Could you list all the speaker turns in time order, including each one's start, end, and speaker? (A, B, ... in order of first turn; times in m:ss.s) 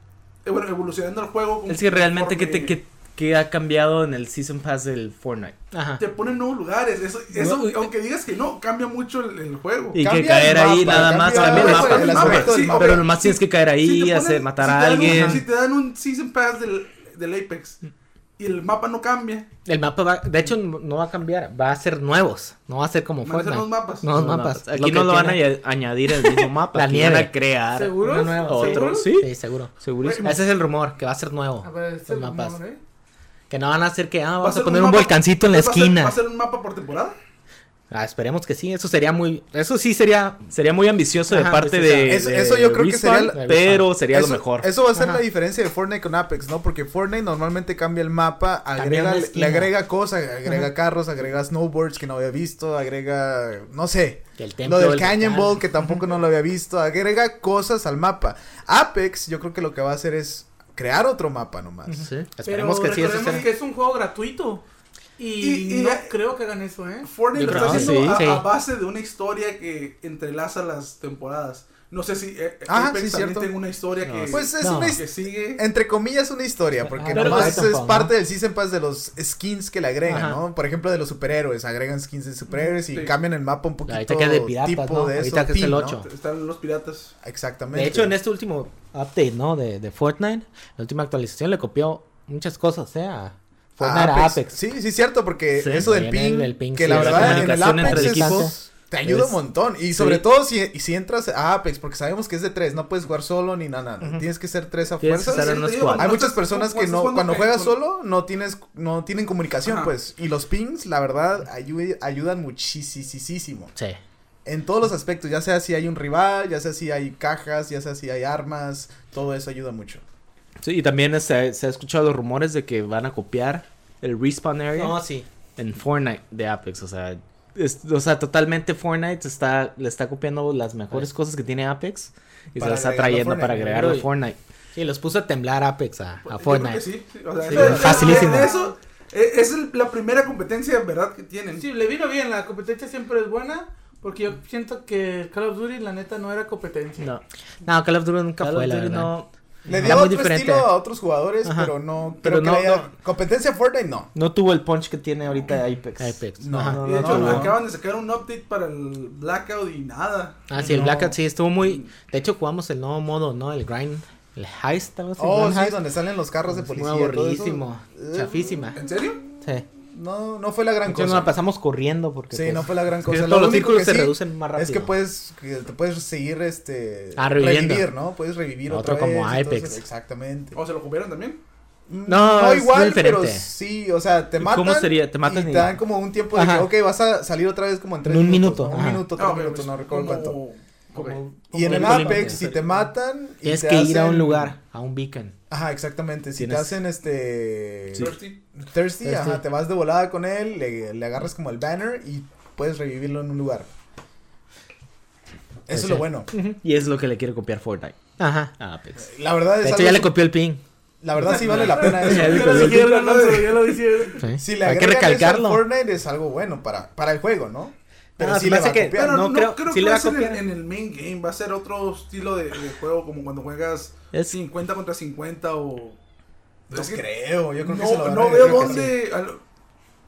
0:00.4-0:02.8 A
0:01.7-0:05.6 B
0:05.7-0:06.0 C
0:06.0-0:10.0 A
0:07.4-0:07.9 C
0:09.9-0:15.4 B
0:10.0-0:13.1 D
0:10.9-0:17.8 A
0:15.1-0:15.4 C
0:18.4-0:19.5 A
0:19.6-0:25.5 C
0:23.2-0:24.2 A
0:24.1-0:30.5 B
0:26.1-0:27.3 C
0:27.7-0:29.2 E
0:28.0-0:32.6 C
0:30.0-0:30.3 A
0:31.6-0:32.8 E
0:33.5-0:36.2 C
0:34.4-0:37.2 A
0:37.9-0:40.5 C
0:40.5-0:44.7 B
0:41.3-0:42.2 C
0:42.0-1:02.1 D
0:43.3-0:43.9 C
0:44.9-0:45.2 C
0:48.8-0:49.7 C
0:54.4-0:55.6 C
1:01.9-1:03.5 C
1:02.4-1:04.6 E
1:05.2-1:07.1 E
1:05.4-1:06.2 A
1:07.0-1:15.6 A
1:07.3-1:08.5 C
1:07.4-1:08.4 B
1:12.7-1:13.6 D
1:14.0-1:14.4 B
1:14.3-1:26.0 D
1:14.6-1:15.0 C
1:16.9-1:18.1 C
1:17.1-1:17.5 B
1:20.1-1:20.4 C
1:22.9-1:23.1 A
1:23.9-1:26.1 C
1:26.0-1:27.1 A
1:27.2-1:28.1 D
1:27.7-1:34.6 C
1:33.8-1:53.7 D
1:35.6-1:38.6 C
1:36.8-1:38.6 B
1:39.1-1:39.4 B
1:40.0-1:40.2 B
1:45.0-1:46.2 B
1:45.3-1:47.8 A
1:49.6-1:49.9 A
1:54.4-2:00.0 D
2:00.6-2:05.0 B
2:04.7-2:05.3 C
2:05.6-2:14.4 B
2:12.6-2:13.8 D
2:13.5-2:14.1 C
2:14.8-2:16.9 C
2:16.3-2:21.7 A
2:17.4-2:18.5 C
2:17.5-2:18.0 B
2:17.5-2:18.8 E
2:21.6-2:27.0 E
2:27.6-2:29.1 C
2:28.4-2:29.9 B
2:29.7-2:34.1 D
2:29.7-2:30.7 C
2:31.4-2:31.7 C
2:32.2-2:32.9 B
2:34.2-2:37.6 B
2:36.0-2:37.4 C
2:36.4-2:37.6 D
2:36.8-2:40.4 A
2:40.5-2:45.8 C
2:40.6-2:41.2 D
2:41.6-2:41.9 A
2:45.2-2:48.7 D
2:46.4-2:48.8 C
2:48.8-2:49.2 A
2:49.4-2:49.7 C
2:49.9-2:51.4 D
2:50.8-2:54.9 C
2:52.3-3:00.6 D
2:57.2-2:57.9 C
2:58.7-2:59.8 C
3:00.5-3:01.4 A
3:01.9-3:10.4 D
3:02.1-3:03.5 C
3:04.4-3:05.8 B
3:06.3-3:06.7 C
3:08.0-3:09.0 C
3:09.2-3:11.2 A
3:11.0-3:12.5 C
3:11.5-3:14.5 D
3:11.6-3:12.4 B
3:11.7-3:12.4 A
3:13.4-3:15.4 C
3:15.5-3:23.7 D
3:16.4-3:16.7 C
3:18.0-3:18.4 A
3:19.0-3:19.4 C
3:25.7-3:26.3 D
3:25.7-3:26.6 C
3:26.6-3:28.0 B
3:28.2-3:28.6 C
3:28.6-3:29.0 B
3:29.0-3:30.2 D
3:29.6-3:30.6 C
3:31.0-3:32.7 D
3:31.3-3:33.8 A
3:31.4-3:32.9 B
3:31.4-3:34.2 E
3:34.2-3:35.6 C
3:34.4-3:39.3 D
3:38.2-3:40.4 C
3:38.9-3:46.0 A
3:46.7-3:48.9 D
3:46.7-3:47.0 A
3:47.6-3:49.4 A
3:48.3-3:48.9 C